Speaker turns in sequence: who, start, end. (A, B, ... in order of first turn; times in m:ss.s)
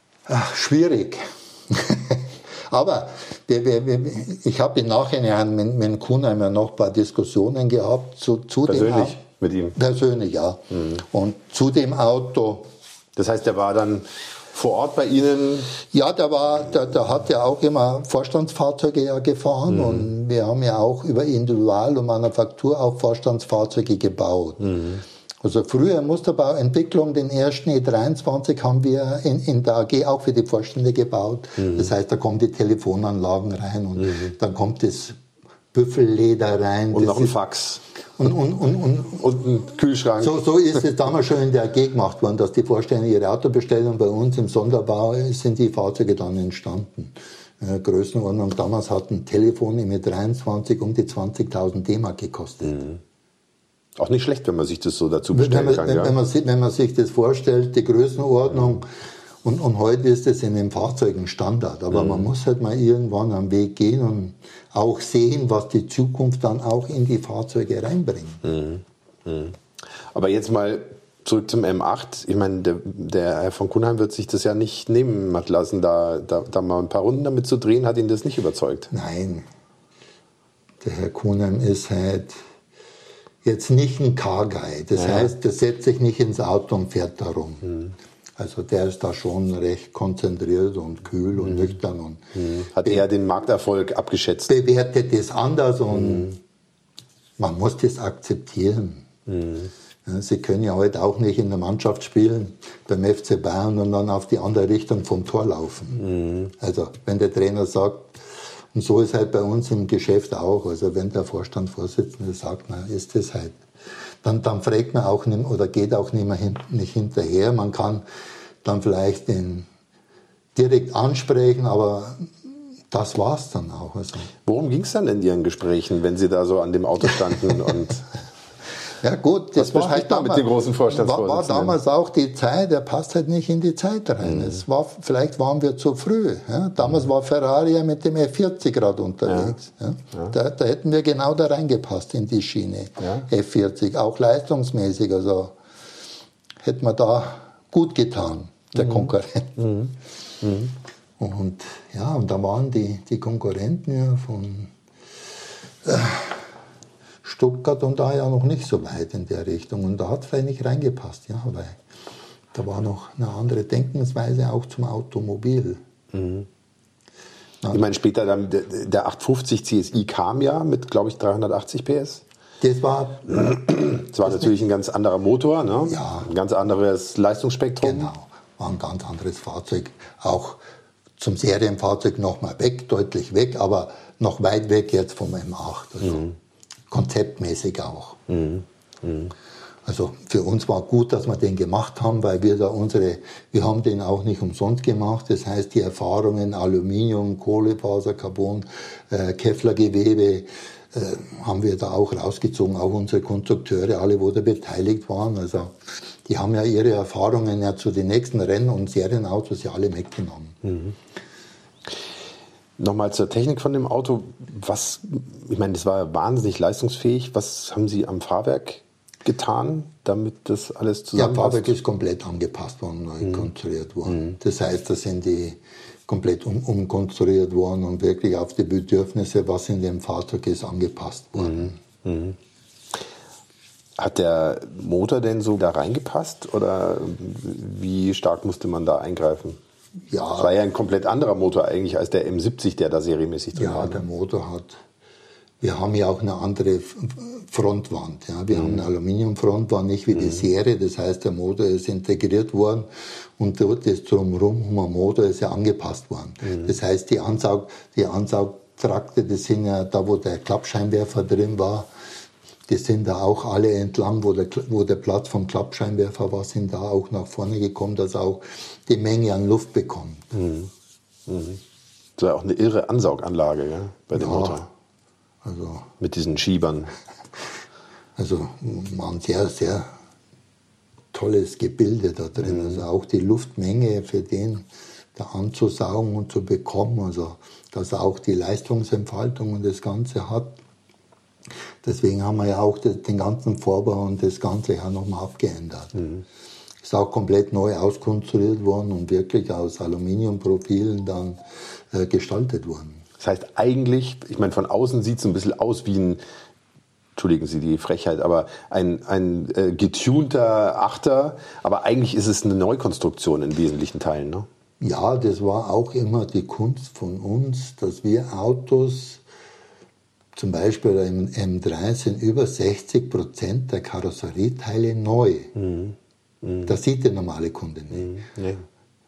0:00.3-0:09.2 A
0:08.7-0:09.8 B
0:09.8-0:12.7 A
0:13.2-0:15.8 B
0:15.9-0:24.8 A
0:19.7-0:20.1 B
0:24.7-0:25.0 B
0:25.4-0:35.2 A
0:35.7-0:37.4 A
0:36.9-0:37.8 B
0:38.2-0:39.4 A
0:39.2-0:40.4 B
0:40.2-0:52.8 A
0:52.7-0:53.0 B
0:54.0-0:56.2 B
0:55.3-0:58.9 A
0:59.4-1:08.4 A
1:01.9-1:02.3 B
1:08.4-1:09.6 B
1:10.1-1:18.9 B
1:18.9-1:19.5 A
1:20.8-1:22.4 A
1:23.4-1:27.7 A
1:25.0-1:25.3 B
1:28.4-1:32.2 A
1:32.4-1:34.5 B
1:34.5-1:36.4 A
1:37.4-1:39.1 A
1:39.3-1:39.7 B
1:40.0-1:53.6 A
1:46.0-1:46.5 B
1:54.2-1:58.0 A
1:58.6-1:59.7 A
2:00.6-2:04.3 A
2:04.4-2:08.1 B
2:09.0-2:25.6 A
2:09.6-2:11.8 B
2:14.2-2:14.6 B
2:19.3-2:19.6 B
2:23.0-2:23.3 B
2:26.6-2:29.5 A
2:29.6-2:30.7 B
2:31.2-2:34.7 A
2:35.8-2:36.5 A
2:37.2-2:41.8 A
2:42.5-2:45.8 A
2:46.1-2:46.5 B
2:47.7-2:52.2 B
2:52.6-2:53.5 A
2:53.3-2:58.1 B
2:55.9-2:56.3 A
2:57.8-3:00.6 A
3:01.2-3:06.3 A
3:06.9-3:08.2 A
3:08.3-3:09.3 B
3:09.8-3:30.6 A
3:30.6-3:31.0 B
3:32.8-3:41.8 B
3:41.2-3:51.8 A
3:52.0-3:52.4 B
3:54.0-3:59.6 B
4:00.1-4:00.5 A
4:00.3-4:04.0 B
4:03.6-4:04.8 A
4:05.6-4:21.9 A
4:08.5-4:08.8 B
4:22.7-4:30.3 A
4:30.3-4:30.7 B
4:31.3-4:31.6 B
4:32.2-4:34.7 B
4:34.1-4:34.6 A
4:35.4-4:35.9 A
4:36.0-4:36.9 B
4:38.2-4:39.9 A
4:41.1-4:50.6 A
4:51.8-4:56.0 A
4:56.0-4:56.2 B
4:56.8-5:03.0 A
5:03.2-5:06.2 B
5:07.2-5:14.5 B
5:14.8-5:19.2 A
5:20.4-5:25.5 A
5:25.6-5:26.7 B
5:26.7-5:28.1 A
5:28.0-5:28.6 B